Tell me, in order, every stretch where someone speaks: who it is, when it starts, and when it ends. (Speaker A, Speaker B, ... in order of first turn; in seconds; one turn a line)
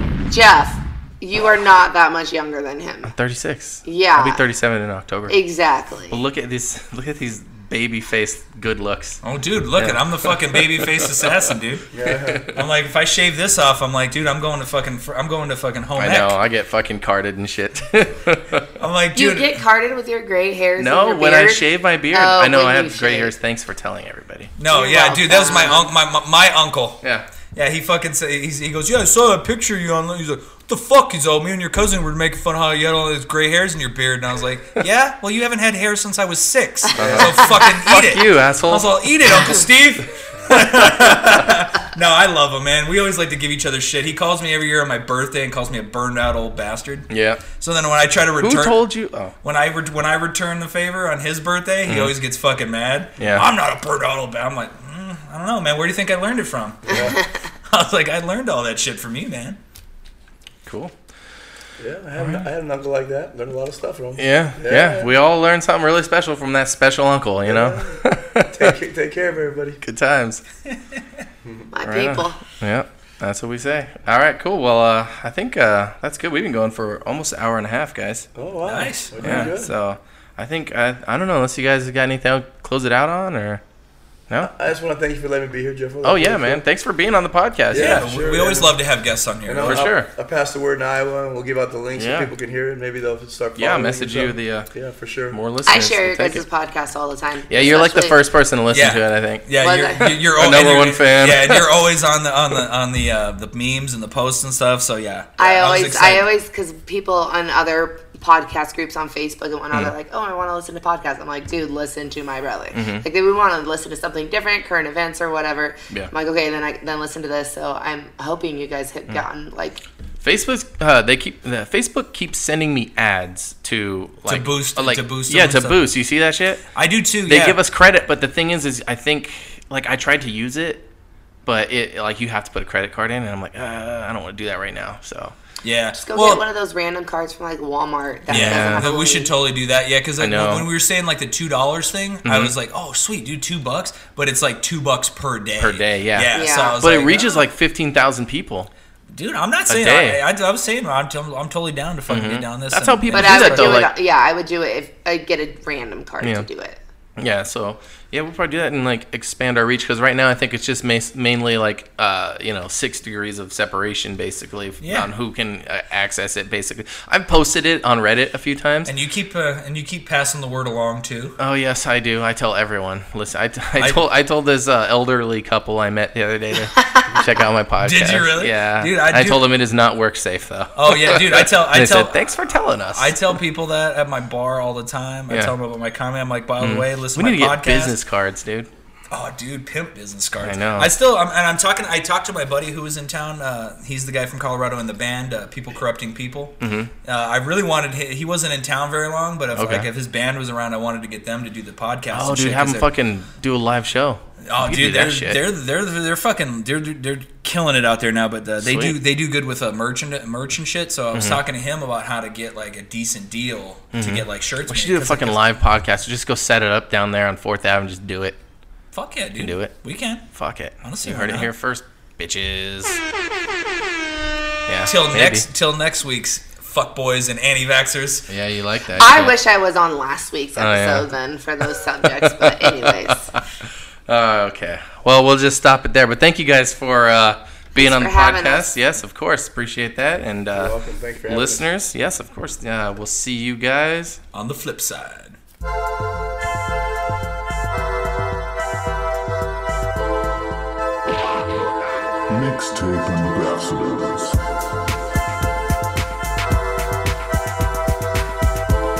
Speaker A: 0.3-3.1
Speaker B: 3.1-5.3
Speaker A: 3.8-4.4
Speaker A: 5.3-6.2
Speaker B: 6.1-9.2
Speaker C: 9.2-11.9
Speaker B: 9.8-11.4
Speaker D: 11.9-12.5
Speaker B: 12.0-12.5
Speaker C: 12.5-16.4
Speaker B: 15.9-18.7
Speaker C: 18.8-19.6
Speaker A: 19.1-23.3
Speaker B: 20.8-24.5
Speaker C: 24.6-27.0
Speaker A: 24.7-25.9
Speaker B: 27.0-27.3
Speaker C: 27.5-48.8
Speaker B: 36.9-39.0
Speaker D: 37.0-37.3
Speaker B: 47.1-47.4
Speaker B: 48.4-49.3
Speaker C: 49.4-57.1
Speaker B: 51.9-52.1
Speaker B: 53.2-53.5
Speaker D: 56.9-57.2
Speaker C: 57.7-59.6
Speaker B: 60.6-60.9
Speaker D: 61.8-65.1
Speaker B: 64.2-68.7
Speaker D: 67.4-69.8
Speaker B: 69.8-70.4
Speaker D: 71.4-71.7
Speaker A: 71.7-72.4
Speaker B: 71.8-78.3
Speaker D: 78.3-79.7
Speaker C: 78.6-79.6
Speaker B: 79.2-83.6
Speaker D: 84.4-86.6
Speaker B: 86.0-88.1
Speaker D: 87.7-88.8
Speaker C: 87.7-89.9
Speaker D: 89.5-95.4
Speaker B: 89.6-90.1
Speaker B: 92.0-92.3
Speaker B: 93.5-94.7
Speaker B: 95.3-96.4
Speaker A: 95.7-98.2
Speaker B: 97.5-101.7
Speaker C: 98.7-106.2
Speaker A: 99.6-100.1
Speaker A: 105.4-119.8
Speaker B: 112.7-113.0
Speaker B: 120.2-126.6
Speaker C: 124.3-125.9
Speaker C: 126.7-127.6
Speaker B: 127.2-130.8
Speaker B: 131.4-135.3
Speaker C: 135.6-136.4
Speaker A: 136.0-139.3
Speaker B: 138.3-138.9
Speaker C: 138.3-147.5
Speaker B: 140.2-140.7
Speaker B: 142.2-142.5
Speaker B: 145.6-148.7
Speaker A: 146.3-146.8
Speaker C: 149.1-153.8
Speaker B: 149.7-150.2
Speaker B: 152.1-153.9
Speaker A: 153.1-156.8
Speaker B: 156.2-156.4
Speaker B: 157.2-168.9
Speaker C: 164.8-165.1
Speaker C: 168.8-171.4
Speaker B: 171.4-183.2
Speaker C: 173.8-174.0
Speaker A: 176.8-177.0
Speaker C: 177.8-179.4
Speaker C: 180.8-182.2
Speaker C: 182.9-188.0
Speaker B: 185.3-185.5
Speaker B: 186.6-188.7
Speaker C: 189.1-202.9
Speaker B: 190.4-190.9
Speaker B: 196.6-196.9
Speaker B: 199.6-199.9
Speaker B: 202.1-205.4
Speaker C: 204.4-215.5
Speaker B: 208.6-209.0
Speaker B: 211.1-211.4
Speaker B: 213.9-218.4
Speaker C: 218.9-220.3
Speaker B: 219.4-219.7
Speaker B: 220.3-223.0
Speaker C: 220.8-221.5
Speaker B: 224.7-225.4
Speaker C: 224.8-228.3
Speaker B: 228.3-229.3
Speaker A: 228.9-233.3
Speaker B: 230.6-231.1
Speaker B: 232.0-244.2
Speaker A: 237.7-238.7
Speaker D: 240.5-241.6
Speaker C: 244.3-245.3
Speaker E: 252.3-254.4